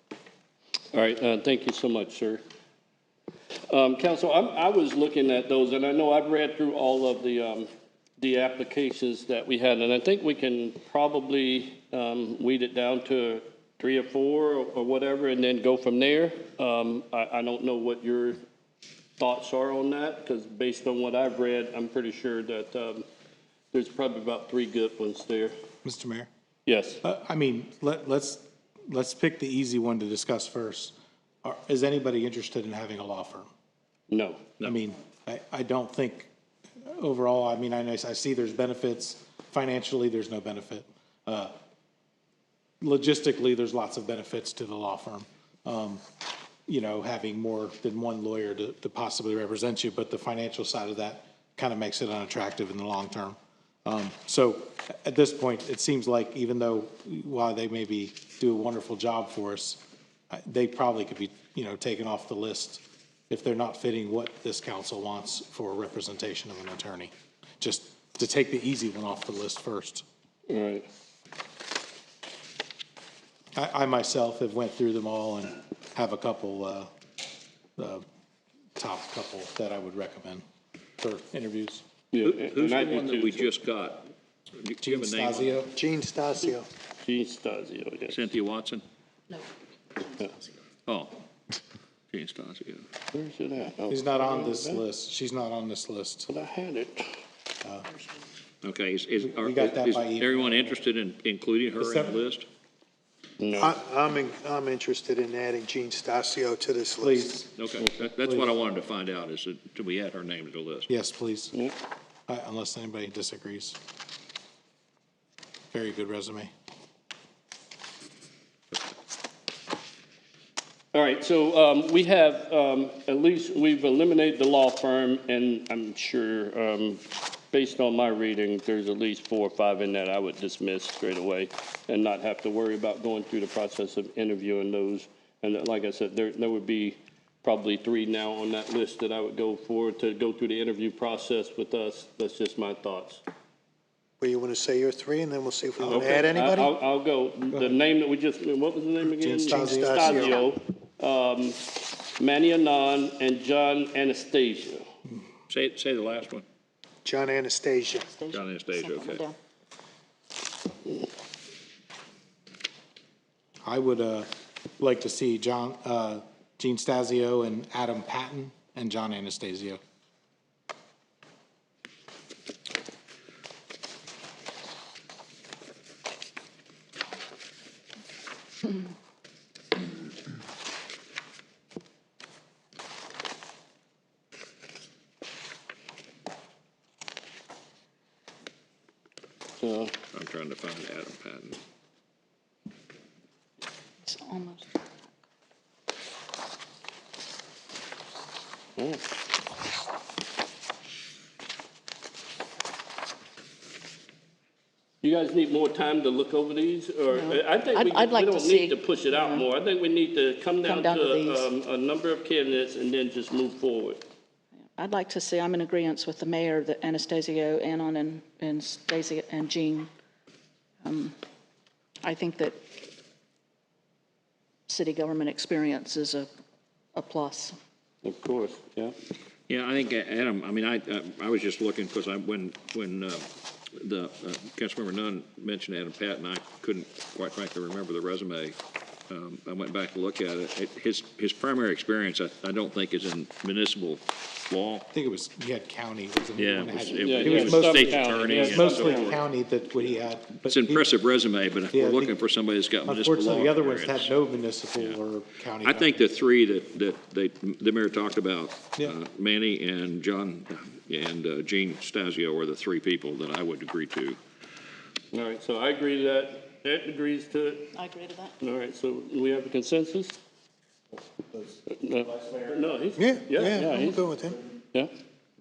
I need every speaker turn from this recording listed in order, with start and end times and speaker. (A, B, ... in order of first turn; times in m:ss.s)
0:00.9-0:02.4 A
0:03.7-0:18.4 A
0:19.2-0:23.0 A
0:23.7-0:25.5 A
0:25.8-0:26.3 B
0:26.7-0:27.0 A
0:27.0-0:33.5 B
0:34.1-0:34.4 A
0:34.6-0:36.3 B
0:36.8-0:41.5 B
0:42.8-0:46.0 B
0:46.7-1:10.0 B
1:10.5-1:10.9 A
1:13.6-1:16.9 B
1:17.8-1:18.0 B
1:18.8-1:20.4 B
1:21.0-1:21.8 B
1:22.1-1:23.5 A
1:22.2-1:25.6 C
1:24.8-1:25.8 B
1:25.7-1:26.7 D
1:27.0-1:28.2 A
1:28.1-1:28.8 C
1:30.0-1:30.3 E
1:30.9-1:31.2 C
1:32.1-1:32.8 C
1:33.1-1:34.8 A
1:33.9-1:36.3 B
1:36.3-1:37.1 A
1:38.6-1:42.5 C
1:39.2-1:40.7 B
1:41.8-1:42.2 B
1:43.4-1:43.8 A
1:43.6-1:47.3 D
1:47.0-1:47.6 B
1:47.6-1:50.9 C
1:48.2-1:48.5 B
1:50.9-1:51.5 B
1:52.3-1:53.8 B
1:55.7-1:56.5 B
2:00.9-2:23.2 A
2:24.2-2:26.8 D
2:25.8-2:31.6 A
2:29.2-2:30.1 B
2:29.5-2:30.4 D
2:30.1-2:30.5 E
2:32.2-2:34.8 A
2:35.5-2:36.4 C
2:37.0-2:38.1 D
2:38.1-2:39.4 E
2:38.3-2:39.2 C
2:43.6-2:49.8 B
3:09.6-3:09.9 A
3:10.1-3:11.6 C
3:14.0-3:15.1 E
3:18.8-3:19.0 A
3:25.0-3:34.0 A
3:27.1-3:29.5 E
3:30.6-3:31.5 E
3:34.8-3:39.9 E
3:40.8-3:41.2 E
3:42.0-3:42.6 E
3:44.7-3:46.3 E
3:47.0-3:47.6 E
3:48.0-3:49.0 A
3:49.5-3:58.6 C
3:59.1-4:04.9 C
4:04.9-4:10.9 B
4:06.4-4:09.1 C
4:07.0-4:09.2 A
4:10.4-4:14.1 C
4:11.7-4:12.2 B
4:12.8-4:16.1 B
4:15.6-4:24.2 C
4:25.1-4:27.7 A
4:27.7-4:28.3 E
4:28.4-4:30.2 A
4:31.7-4:34.0 A
4:33.0-4:34.4 D